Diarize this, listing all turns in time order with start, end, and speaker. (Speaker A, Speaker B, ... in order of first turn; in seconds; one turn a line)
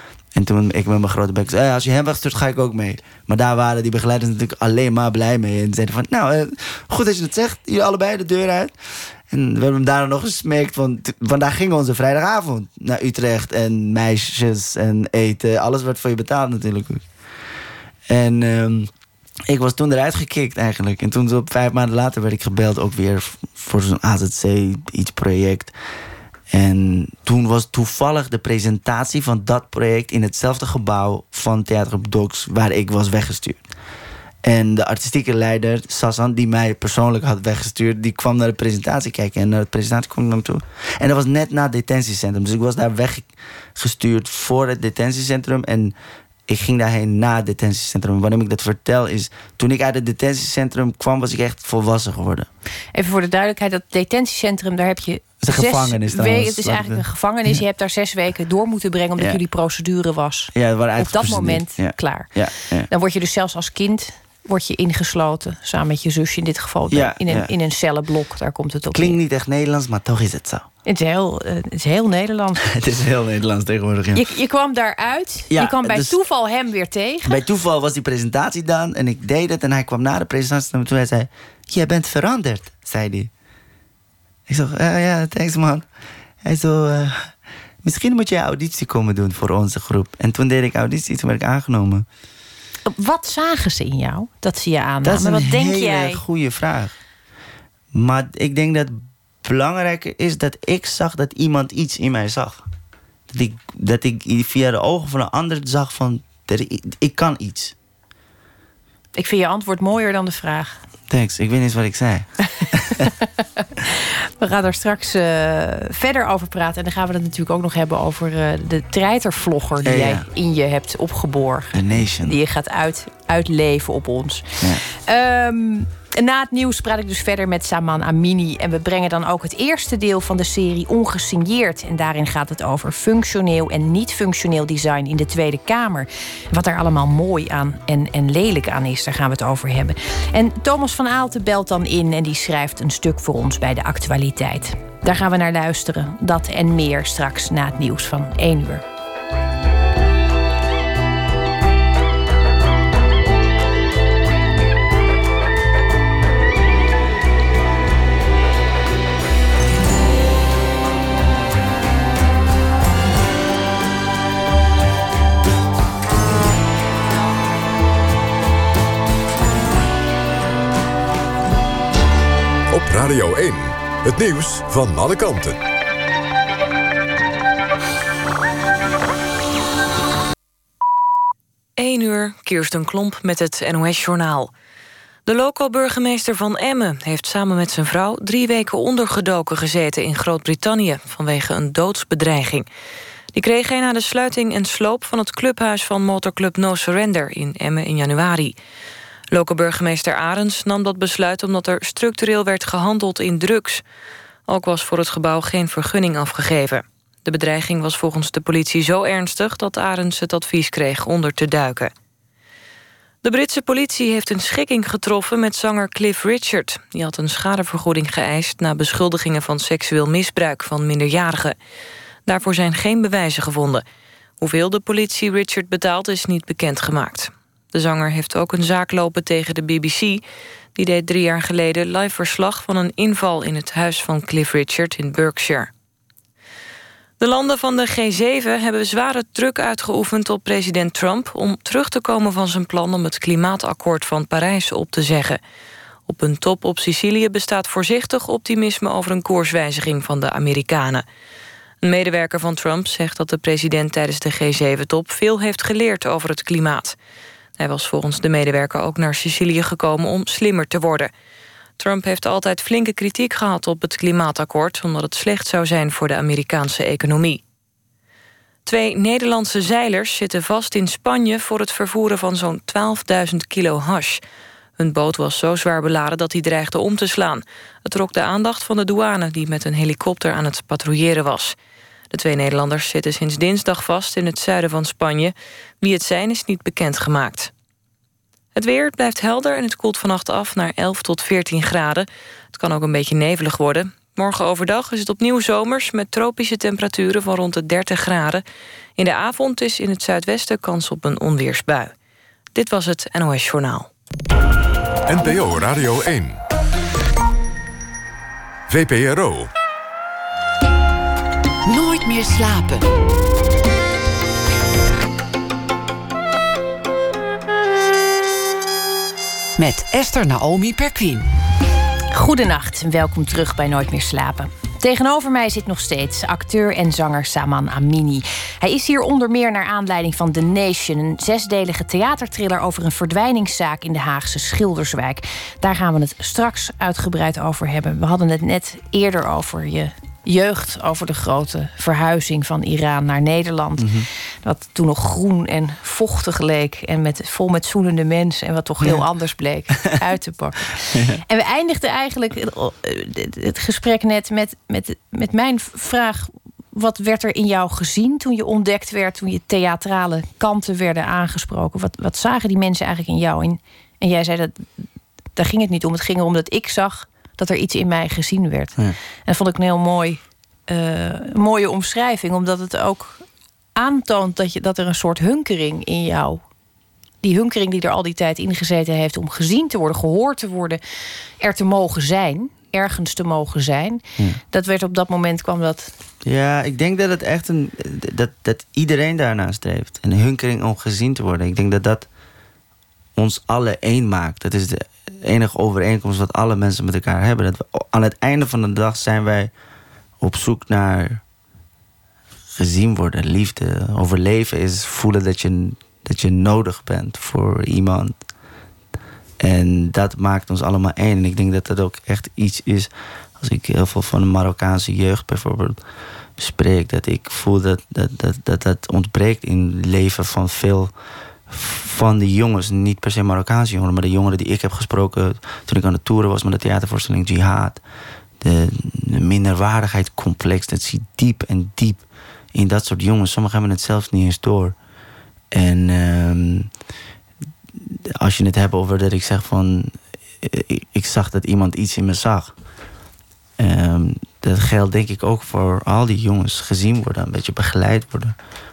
Speaker A: 0.3-8.8
Speaker A: 9.3-17.1
Speaker A: 18.1-18.9
Speaker A: 19.5-25.7
Speaker A: 26.5-33.6
Speaker A: 34.4-46.0
Speaker A: 46.5-52.5
Speaker B: 52.9-62.4
Speaker A: 55.4-57.6
Speaker A: 60.5-62.9
Speaker B: 62.9-69.2
Speaker A: 66.9-67.5
Speaker A: 68.9-70.7
Speaker B: 70.9-72.7
Speaker A: 72.6-74.2
Speaker B: 74.1-77.4
Speaker A: 75.5-76.2
Speaker A: 77.2-83.3
Speaker A: 84.5-85.9
Speaker A: 86.4-92.1
Speaker B: 92.9-96.2
Speaker A: 95.0-97.0
Speaker A: 97.9-102.7
Speaker A: 103.3-107.8
Speaker B: 109.2-110.8
Speaker A: 111.1-113.0
Speaker B: 113.8-148.8
Speaker A: 119.8-120.3
Speaker A: 121.7-122.4
Speaker C: 172.7-175.6
Speaker D: 181.8-184.5
Speaker D: 185.3-192.7
Speaker D: 193.3-198.6
Speaker D: 199.3-203.8
Speaker D: 204.5-211.9
Speaker D: 213.2-221.6
Speaker D: 222.3-223.8
Speaker D: 224.4-230.2
Speaker D: 230.8-235.7
Speaker D: 237.2-245.4
Speaker D: 246.1-251.1
Speaker D: 251.8-257.0
Speaker D: 257.6-261.1
Speaker D: 261.8-267.4
Speaker D: 268.6-274.2
Speaker D: 274.8-281.6
Speaker D: 282.1-287.5
Speaker D: 288.6-298.4
Speaker D: 299.0-301.9
Speaker D: 302.6-303.9
Speaker C: 305.1-306.4
Speaker C: 308.7-309.5
Speaker E: 311.7-312.9
Speaker E: 319.6-321.3
Speaker B: 322.1-364.7
Speaker A: 343.8-344.1
Speaker A: 350.9-351.2
Speaker B: 365.4-373.2
Speaker B: 373.8-376.4
Speaker B: 377.2-380.8
Speaker B: 381.4-385.9
Speaker A: 386.2-392.1
Speaker A: 393.2-399.5
Speaker A: 400.2-401.2
Speaker A: 402.6-408.2
Speaker A: 409.4-415.8
Speaker A: 416.4-420.9
Speaker A: 421.5-427.8
Speaker A: 428.4-434.8
Speaker A: 435.5-436.7
Speaker A: 437.8-442.5
Speaker A: 443.6-448.4